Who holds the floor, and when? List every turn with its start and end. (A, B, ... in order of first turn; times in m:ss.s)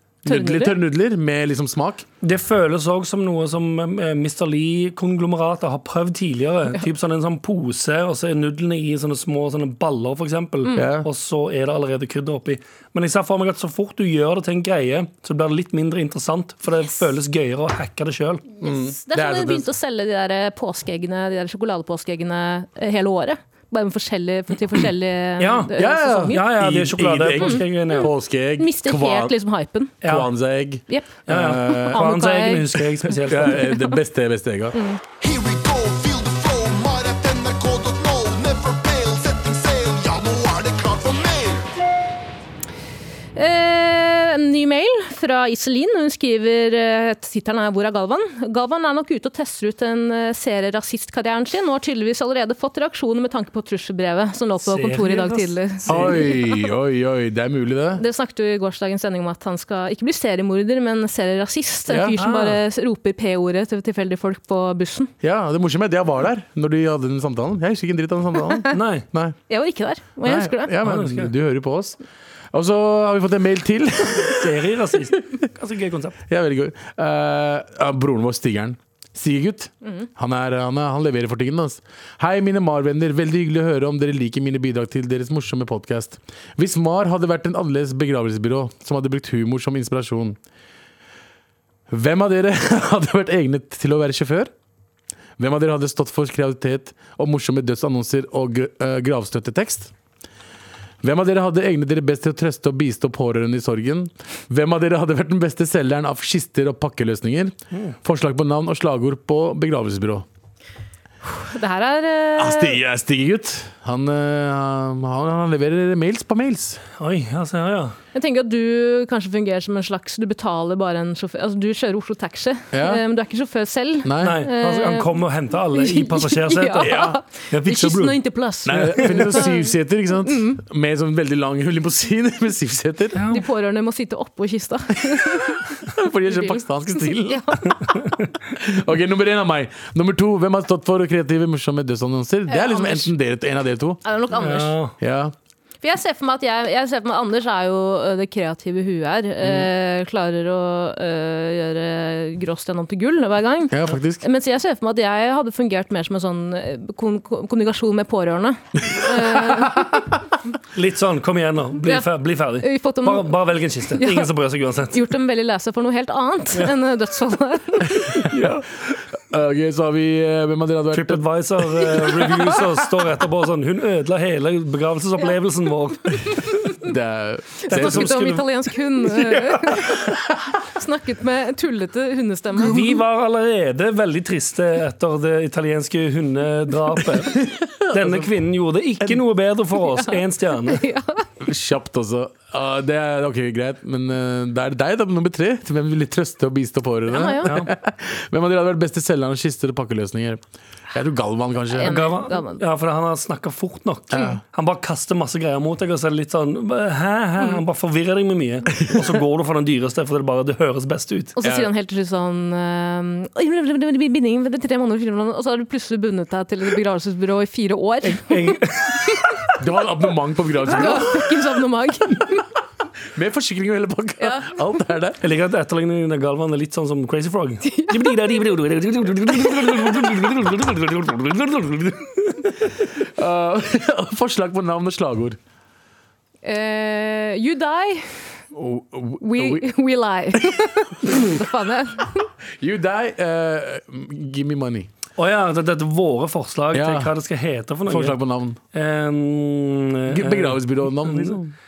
0:00.2-0:02.1 A
0:00.3-0:00.8 B
0:02.2-0:18.4 C
0:10.8-0:11.1 A
0:18.6-0:19.7 A
0:18.6-0:26.4 B
0:25.4-0:25.7 C
0:25.7-0:29.4 A
0:26.3-0:28.1 C
0:27.4-0:30.0 B
0:30.0-0:32.0 A
0:30.0-0:30.3 C
0:30.9-0:31.2 B
0:31.3-0:33.7 C
0:31.7-0:32.7 B
0:33.2-0:34.8 A
0:34.7-0:35.0 B
0:35.2-0:41.7 D
0:43.4-0:56.5 B
0:54.6-0:56.2 C
0:55.9-0:58.0 A
0:58.0-1:05.1 B
1:01.9-1:02.2 A
1:02.2-1:02.6 C
1:05.2-1:09.4 A
1:08.7-1:09.1 C
1:09.5-1:10.7 B
1:10.2-1:12.0 A
1:10.8-1:11.3 C
1:12.5-1:14.6 A
1:14.3-1:16.2 C
1:16.3-1:30.4 A
1:31.9-1:34.5 A
1:35.4-1:39.9 A
1:41.0-1:50.3 A
1:51.2-1:52.8 B
1:52.4-1:56.8 A
1:57.0-1:58.0 C
1:58.1-2:05.1 B
2:02.7-2:03.0 A
2:04.0-2:04.4 A
2:04.2-2:09.4 C
2:05.8-2:10.6 B
2:06.8-2:07.2 A
2:08.7-2:13.2 A
2:13.1-2:13.4 C
2:13.3-2:15.7 B
2:15.9-2:17.6 A
2:16.3-2:17.9 B
2:17.9-2:18.1 C
2:18.6-2:24.0 A
2:22.5-2:23.1 B
2:24.0-2:24.7 B
2:24.4-2:25.0 C
2:25.0-2:25.3 A
2:25.8-2:40.1 B
2:33.7-2:34.2 A
2:39.0-2:39.6 A
2:40.7-2:45.0 C
2:42.6-2:43.4 B
2:44.0-2:44.3 B
2:44.9-2:48.2 B
2:48.3-2:52.5 A
2:50.9-2:56.7 C
2:56.8-2:58.3 A
2:57.6-3:02.8 B
2:57.7-2:58.5 C
2:59.0-2:59.8 C
3:02.6-3:10.8 C
3:07.3-3:08.3 A
3:10.7-3:11.3 B
3:11.4-3:22.0 A
3:17.1-3:17.5 B
3:17.5-3:17.7 C
3:21.7-3:22.6 B
3:21.9-3:31.4 C
3:24.1-3:24.4 A
3:31.4-3:38.5 B
3:31.4-3:31.7 A
3:38.0-3:39.3 C
3:39.6-3:41.3 A
3:40.7-3:42.4 B
3:43.1-3:45.2 A
3:44.2-3:44.5 B
3:45.2-3:52.5 C
3:47.7-3:48.2 B
3:52.9-3:55.4 A
3:56.4-3:58.4 B
3:58.5-3:59.7 A
3:59.2-4:02.3 B
4:01.1-4:01.4 A
4:02.6-4:04.9 A
4:05.2-4:08.2 C
4:06.7-4:07.1 A
4:07.9-4:08.6 A
4:08.7-4:11.4 C
4:10.1-4:11.5 A